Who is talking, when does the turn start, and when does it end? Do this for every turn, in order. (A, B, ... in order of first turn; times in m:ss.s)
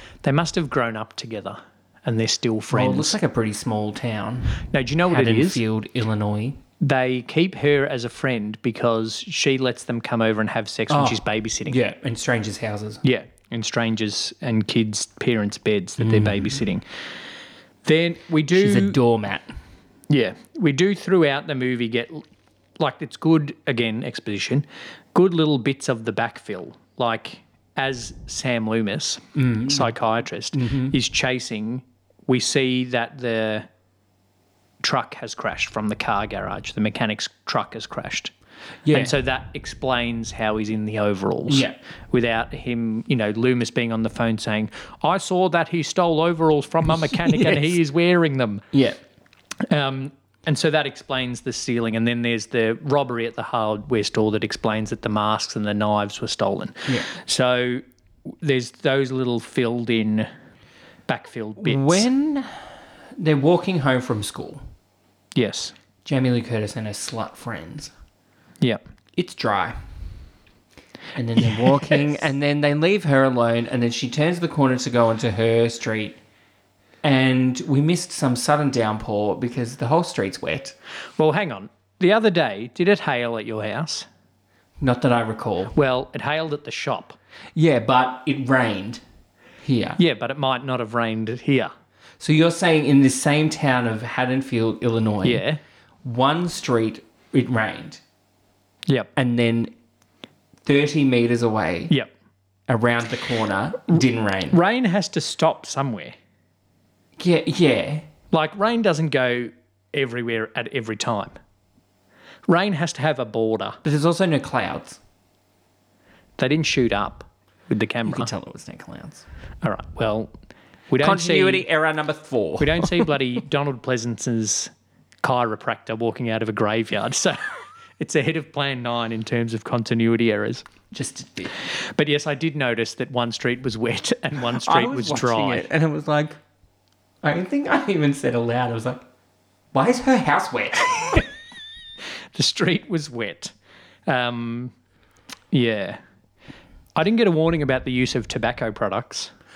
0:00.2-0:03.2 A
0:02.7-0:06.6 B
0:04.7-0:05.6 A
0:06.8-0:11.8 A
0:10.9-0:13.0 B
0:13.0-0:16.8 A
0:16.0-0:16.6 B
0:17.8-0:19.0 A
0:18.5-0:19.5 B
0:20.1-0:22.3 A
0:22.8-0:33.7 A
0:29.4-0:30.0 B
0:30.5-0:31.0 B
0:34.8-0:38.3 A
0:38.9-0:39.2 B
0:38.9-0:48.7 A
0:41.5-0:41.8 B
0:47.1-0:47.7 B
0:48.7-0:49.0 B
0:49.6-1:00.3 A
1:01.1-1:02.1 A
1:01.6-1:02.6 B
1:03.2-1:04.6 B
1:05.4-1:05.7 A
1:06.0-1:07.9 B
1:09.2-1:09.8 B
1:11.2-1:16.2 B
1:11.5-1:12.0 A
1:17.0-1:20.8 B
1:21.2-1:24.1 A
1:24.8-1:25.7 B
1:25.7-1:27.2 A
1:27.6-1:29.0 B
1:29.6-1:30.0 B
1:30.0-1:31.7 A
1:32.2-1:35.4 B
1:35.2-1:35.6 A
1:36.0-1:38.0 B
1:39.2-1:39.7 B
1:40.6-1:41.9 B
1:42.7-1:44.6 B
1:43.9-1:46.2 A
1:47.2-1:48.1 B
1:48.3-1:51.3 A
1:52.5-1:53.8 A
1:53.8-1:55.0 B
1:56.4-1:58.3 A
1:58.1-1:59.2 B
1:59.6-2:00.3 A
2:00.9-2:01.7 A
2:01.0-2:03.2 B
2:02.6-2:04.7 A
2:05.2-2:10.6 A
2:10.9-2:11.5 B
2:11.6-2:15.7 A
2:14.5-2:16.4 B
2:17.2-2:19.0 B
2:19.7-2:21.3 B
2:22.4-2:23.5 A
2:24.1-2:24.7 A
2:25.5-2:26.0 A
2:27.0-2:29.3 A